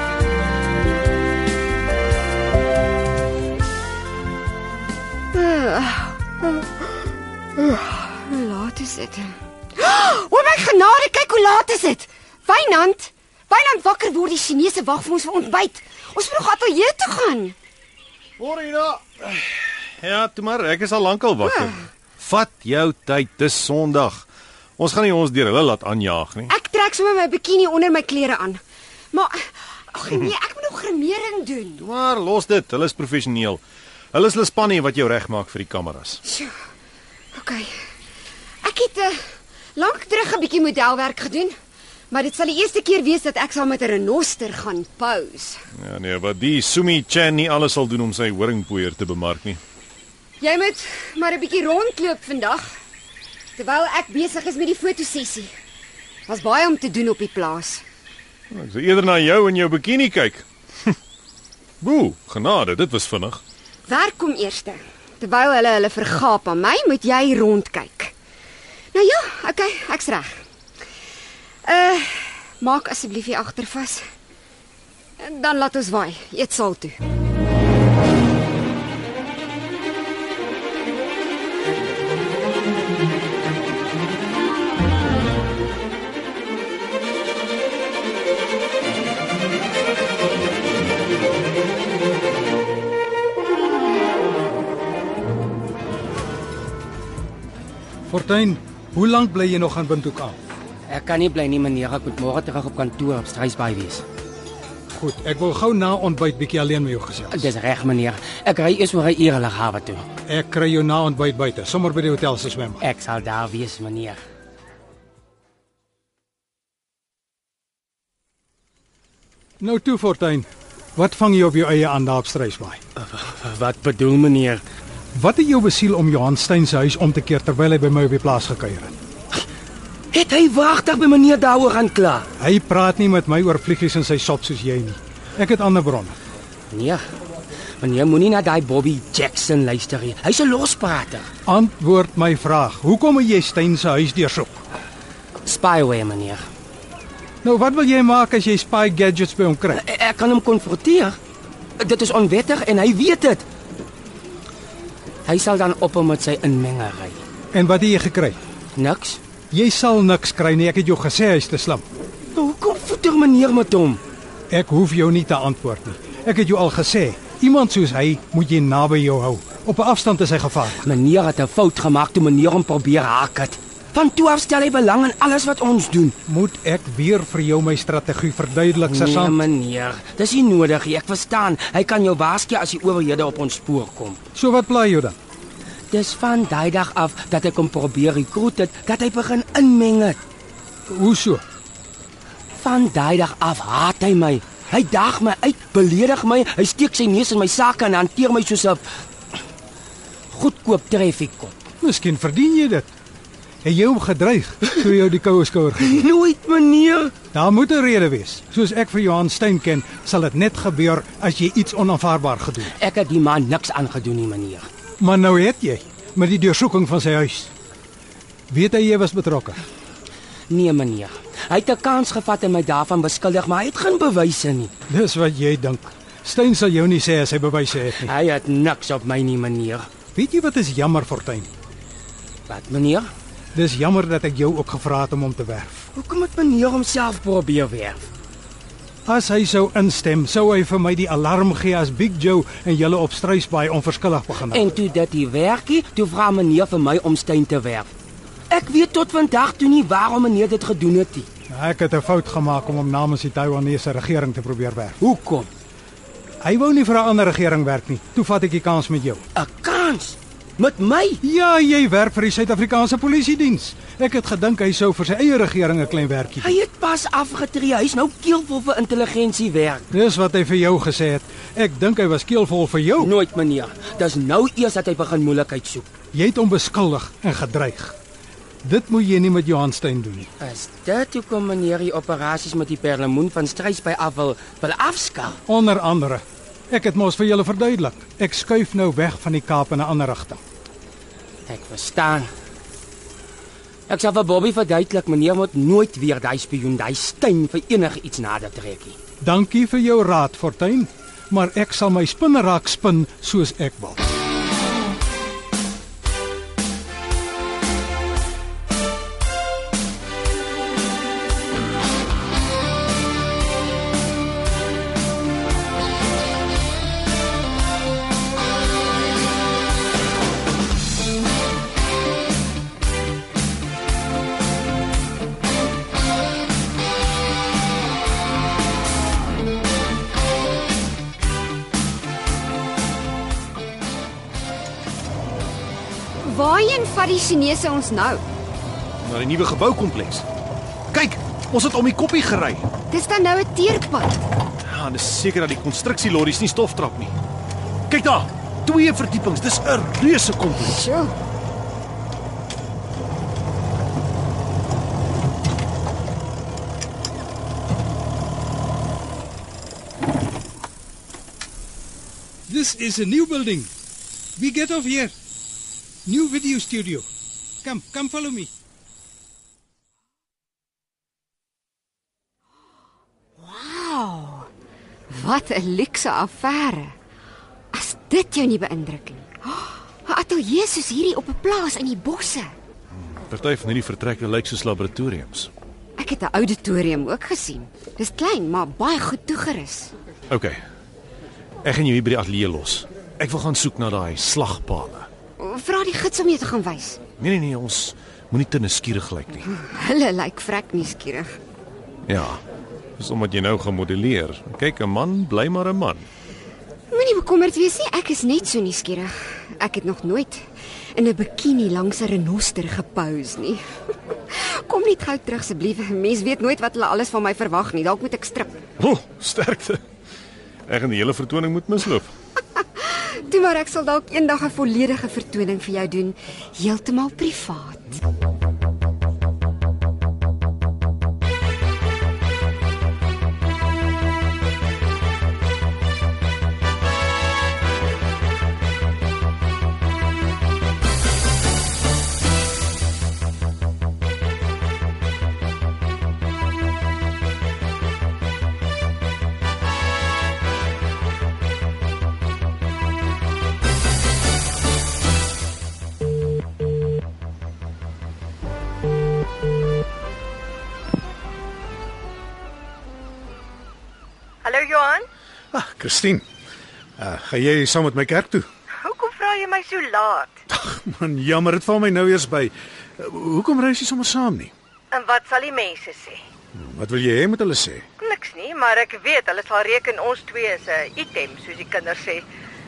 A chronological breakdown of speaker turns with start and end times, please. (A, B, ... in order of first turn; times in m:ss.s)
0:05.3-0:06.9 A
0:07.6-0:17.6 A
0:18.4-0:24.3 B
0:21.5-0:21.7 A
0:24.8-0:26.5 B
0:26.5-0:28.6 A
0:29.1-0:31.8 A
0:31.8-0:33.6 B
0:34.1-0:36.2 B
0:36.2-0:36.5 A
0:37.3-0:37.7 A
0:38.6-0:39.2 A
0:39.8-0:41.5 A
0:42.1-0:45.6 A
0:45.8-0:49.6 B
0:50.4-0:52.7 A
0:53.6-0:55.5 A
0:56.3-0:57.8 A
0:58.5-1:00.9 B
1:01.8-1:03.4 B
1:03.9-1:08.1 A
1:08.9-1:10.3 A
1:11.7-1:14.0 A
1:15.2-1:17.0 A
1:38.1-1:40.4 C
1:40.9-1:44.0 D
1:44.9-1:47.5 C
1:47.3-1:50.1 D
1:50.3-1:52.8 C
1:52.8-1:54.2 D
1:59.6-2:02.8 C
2:03.0-2:04.6 D
2:05.2-2:09.0 C
2:10.1-2:12.3 D
2:12.4-2:16.2 C
2:16.7-2:17.0 D
2:17.8-2:21.3 D
2:21.5-2:24.6 C
2:25.4-2:26.4 D
2:27.4-2:29.8 C
2:29.7-2:31.2 D
2:31.8-2:33.5 D
2:35.2-2:37.2 D
2:37.5-2:38.4 C
2:38.8-2:39.2 D
2:39.5-2:41.8 C
2:42.4-2:44.0 D
2:44.5-2:50.8 C
2:50.8-2:56.2 D
2:56.3-2:59.4 C
2:58.8-3:04.2 D
3:04.4-3:05.2 C
3:05.9-3:10.2 D
3:10.9-3:11.4 C
3:12.6-3:18.8 D
3:20.3-3:21.6 D
3:21.8-3:22.9 C
3:23.6-3:26.1 C
3:25.8-3:27.1 D
3:27.3-3:32.7 C
3:32.8-3:34.7 D
3:35.0-3:37.5 C
3:38.5-3:39.6 C
3:40.5-3:44.7 D
3:44.9-3:48.1 C
3:47.9-3:49.9 D
3:50.2-3:51.5 C
3:52.5-3:53.1 D
3:53.6-3:55.9 C
3:56.0-3:58.1 D
3:59.1-4:04.7 C
4:04.4-4:07.9 D
4:08.5-4:11.3 D
4:11.5-4:15.0 C
4:15.0-4:15.5 D
4:16.4-4:19.2 C
4:19.4-4:21.2 D
4:21.2-4:26.6 C
4:26.4-4:29.9 D
4:29.9-4:33.1 C
4:33.0-4:35.9 D
4:36.1-4:38.0 C
4:38.6-4:40.3 C
4:40.4-4:45.4 D
4:45.5-4:50.4 C
4:51.5-4:52.3 D
4:53.9-4:59.0 D
4:59.2-5:04.1 C
5:36.2-5:38.2 A
5:39.0-5:40.3 B
5:40.9-5:42.7 B
5:42.9-5:44.2 A
5:44.6-5:47.1 B
5:47.9-5:50.8 B
5:50.7-5:51.1 A
6:02.5-6:03.7 C
6:04.4-6:05.2 C
6:06.1-6:07.1 C
6:07.6-6:08.5 C
6:13.4-6:14.5 A
6:15.1-6:17.0 A
6:17.7-6:22.5 A
6:23.0-6:25.5 B
6:26.0-6:29.9 A
6:30.3-6:30.6 B
6:31.6-6:35.1 B
6:35.4-6:37.0 A
6:37.2-6:39.5 B
6:39.5-6:41.3 A
6:42.1-6:42.4 B
6:43.0-6:46.1 B
6:46.9-6:50.4 A
6:51.0-6:53.6 A
6:54.3-6:58.6 A
6:58.8-6:59.8 B
7:00.7-7:02.1 B
7:02.8-7:08.0 A
7:44.4-7:45.1 E
7:45.5-7:46.2 F
7:47.0-7:48.5 F
7:48.8-7:50.3 E
7:50.5-7:54.5 F
7:54.9-7:56.2 E
7:56.5-7:57.8 F
7:58.0-8:02.3 E